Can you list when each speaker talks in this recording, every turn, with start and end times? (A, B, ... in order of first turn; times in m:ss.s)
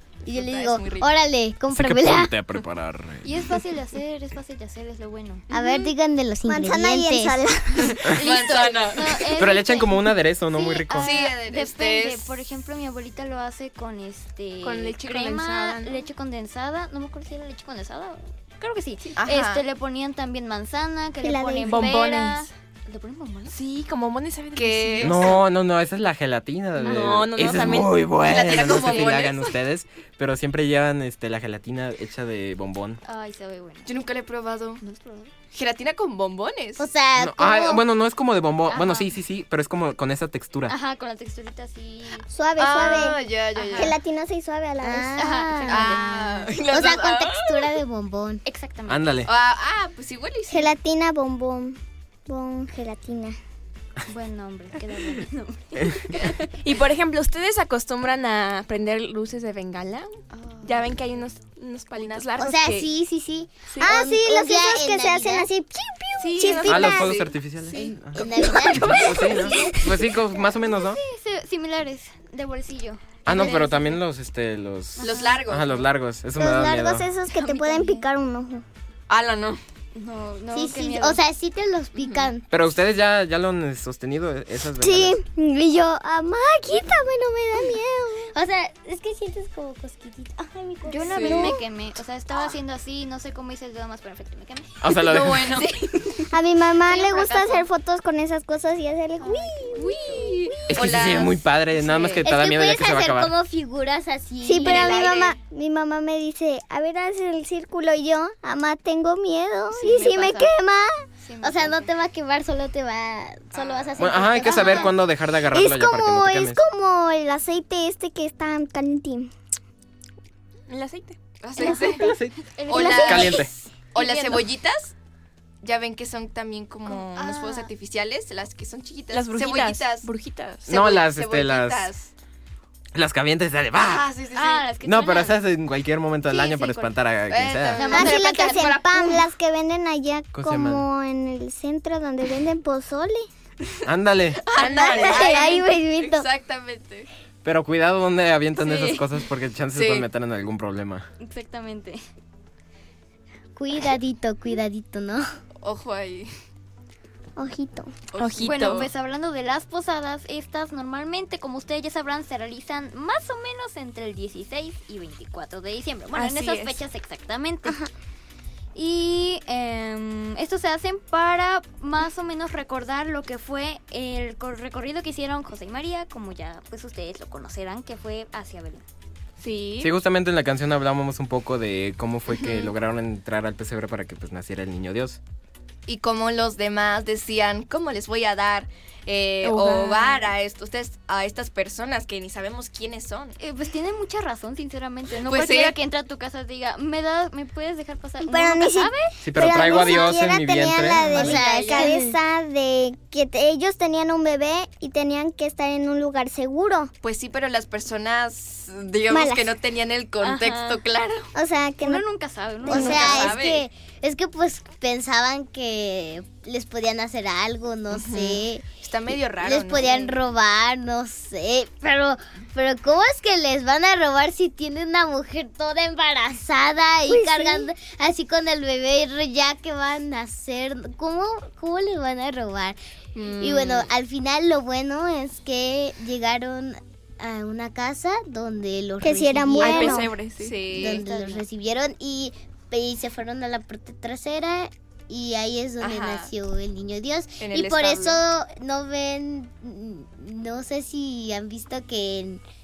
0:00.2-0:02.3 A
0:00.3-0:01.2 B
0:01.7-0:03.4 C
0:03.2-0:05.4 D
0:05.5-0:07.4 A
0:06.5-0:08.1 E
0:08.1-0:23.6 D
0:08.2-0:09.3 B
0:09.4-0:11.1 C
0:11.0-0:12.4 B
0:14.6-0:16.0 F
0:19.2-0:19.6 B
0:21.2-0:22.0 E
0:21.7-0:22.5 F
0:23.5-0:25.3 F
0:24.6-0:25.3 B
0:25.0-0:33.0 C
0:26.9-0:28.0 F
0:28.2-0:29.5 B
0:33.0-0:34.0 D
0:33.8-0:34.8 B
0:34.8-0:35.3 D
0:35.5-0:36.9 B
0:36.8-0:37.8 A
0:37.2-0:40.8 C
0:38.7-0:39.1 D
0:40.7-0:43.9 D
0:42.3-0:43.2 E
0:42.6-0:44.0 B
0:43.8-0:45.4 E
0:44.8-0:48.4 A
0:45.2-0:46.5 D
0:45.7-0:47.7 B
0:48.4-0:49.2 D
0:48.9-0:49.3 C
0:49.3-0:50.7 B
0:50.5-0:53.4 E
0:54.1-0:56.5 D
0:56.6-1:02.9 F
1:00.3-1:00.9 D
1:02.0-1:02.3 B
1:02.4-1:05.5 A
1:03.8-1:07.2 E
1:06.2-1:07.2 F
1:06.6-1:11.0 C
1:08.1-1:09.2 A
1:08.6-1:09.8 E
1:10.4-1:13.9 D
1:13.3-1:17.1 C
1:15.0-1:15.4 D
1:15.0-1:15.9 B
1:16.4-1:18.6 E
1:17.3-1:18.0 D
1:19.1-1:19.6 B
1:20.0-1:21.2 D
1:20.5-1:22.5 A
1:22.0-1:22.3 B
1:22.5-1:25.2 C
1:24.8-1:28.3 E
1:28.3-1:31.6 A
1:30.9-1:34.7 D
1:31.0-1:31.5 B
1:34.8-1:35.6 C
1:35.0-1:36.0 B
1:36.3-1:40.5 E
1:36.9-1:37.6 B
1:39.2-1:40.4 D
1:39.8-1:42.2 B
1:40.7-1:43.3 C
1:42.2-1:45.2 A
1:44.4-1:51.0 E
1:44.6-1:45.4 B
1:49.8-1:50.4 D
1:49.8-1:50.5 B
1:51.2-1:51.9 D
1:51.4-1:54.9 A
1:53.5-1:54.1 B
1:54.0-1:56.6 C
1:55.5-1:59.3 E
2:00.7-2:01.2 F
2:01.4-2:02.2 B
2:01.6-2:02.2 E
2:02.0-2:03.5 C
2:02.6-2:03.4 D
2:02.7-2:04.9 B
2:02.7-2:03.5 E
2:04.0-2:04.4 D
2:05.6-2:10.1 B
2:06.9-2:07.7 D
2:09.1-2:10.6 F
2:10.6-2:12.1 B
2:10.7-2:11.9 C
2:13.0-2:14.1 C
2:13.8-2:14.7 B
2:14.3-2:15.4 D
2:14.8-2:17.9 C
2:16.2-2:17.0 D
2:17.3-2:19.2 B
2:17.8-2:18.2 D
2:17.9-2:23.3 E
2:20.3-2:20.9 C
2:23.8-2:24.4 C
2:24.4-2:27.1 B
2:24.7-2:25.2 D
2:24.7-2:25.6 A
2:25.0-2:26.2 E
2:27.4-2:31.1 C
2:28.6-2:29.1 D
2:29.7-2:30.1 B
2:31.2-2:32.0 D
2:33.6-2:35.2 A
2:35.6-2:36.3 B
2:37.4-2:38.0 E
2:38.1-2:38.9 B
2:38.2-2:38.7 F
2:38.4-2:47.8 D
2:46.1-2:46.8 F
2:48.8-2:58.8 D
2:59.4-2:59.9 F
2:59.8-3:05.2 C
3:05.9-3:13.4 B
3:09.4-3:10.2 F
3:13.4-3:19.7 D
3:15.2-3:15.8 B
3:18.2-3:26.9 E
3:19.2-3:21.4 C
3:21.1-3:22.2 A
3:21.2-3:21.9 B
3:27.0-3:31.3 B
3:29.1-3:29.6 E
3:30.2-3:30.8 D
3:31.4-3:32.0 E
3:31.8-3:33.3 D
3:32.7-3:33.3 E
3:32.7-3:38.7 A
3:32.7-3:33.6 B
3:37.9-3:40.1 B
3:39.4-4:00.1 A
3:47.1-3:47.7 E
3:53.2-3:53.9 B
3:59.0-4:00.1 E
3:59.6-4:00.8 F
3:59.8-4:01.1 B
4:00.7-4:12.4 A
4:00.8-4:01.4 D
4:05.8-4:06.3 B
4:07.4-4:08.2 B